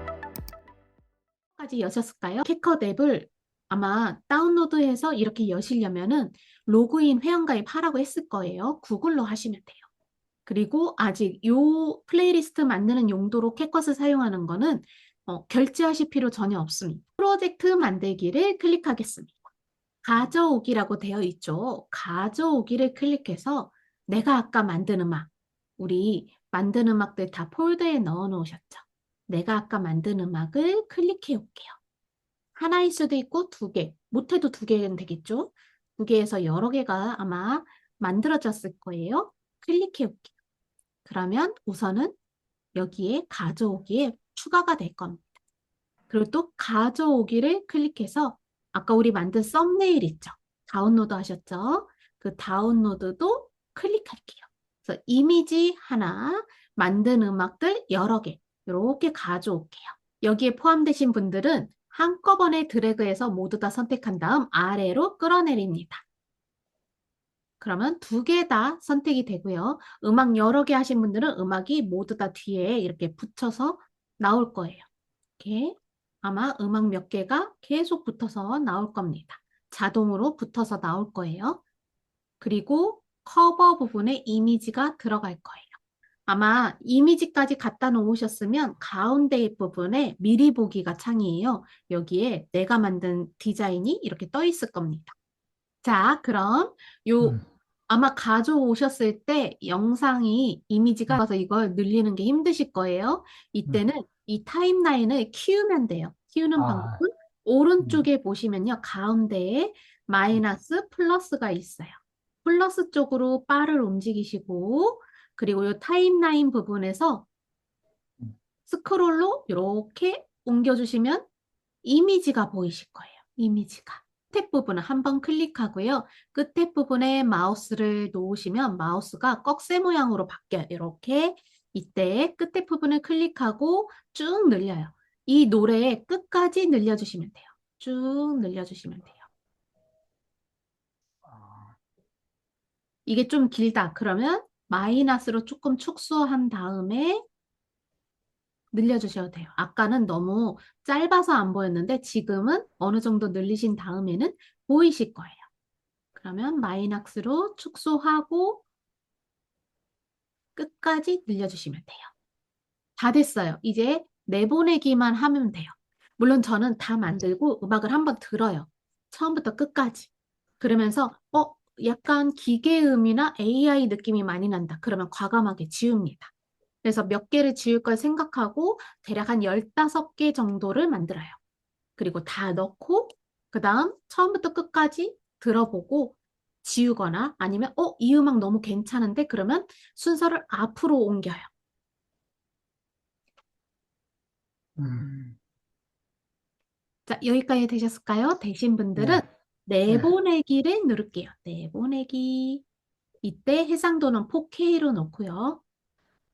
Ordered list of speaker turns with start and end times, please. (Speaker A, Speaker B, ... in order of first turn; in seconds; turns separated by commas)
Speaker A: 1.6-9.9, Speaker A: 10.5-19.4, Speaker A: 20.0-31.8, Speaker A: 32.5-40.3, Speaker A: 41.0-42.2, Speaker A: 42.7-45.4, Speaker A: 46.1-66.0, Speaker A: 67.6-74.8, Speaker A: 75.4-81.6, Speaker A: 82.4-95.2, Speaker A: 95.8-117.3, Speaker B: 97.2-97.5, Speaker B: 106.6-107.0, Speaker A: 118.7-121.3, Speaker A: 121.8-139.3, Speaker B: 141.2-141.8, Speaker A: 143.1-147.2, Speaker A: 148.7-155.5, Speaker A: 156.2-158.6, Speaker A: 160.6-162.1, Speaker A: 163.0-176.3, Speaker A: 176.8-181.4, Speaker A: 182.0-191.5, Speaker B: 194.8-195.4, Speaker A: 197.1-202.6, Speaker B: 199.0-199.3, Speaker B: 199.9-200.1, Speaker A: 203.2-205.6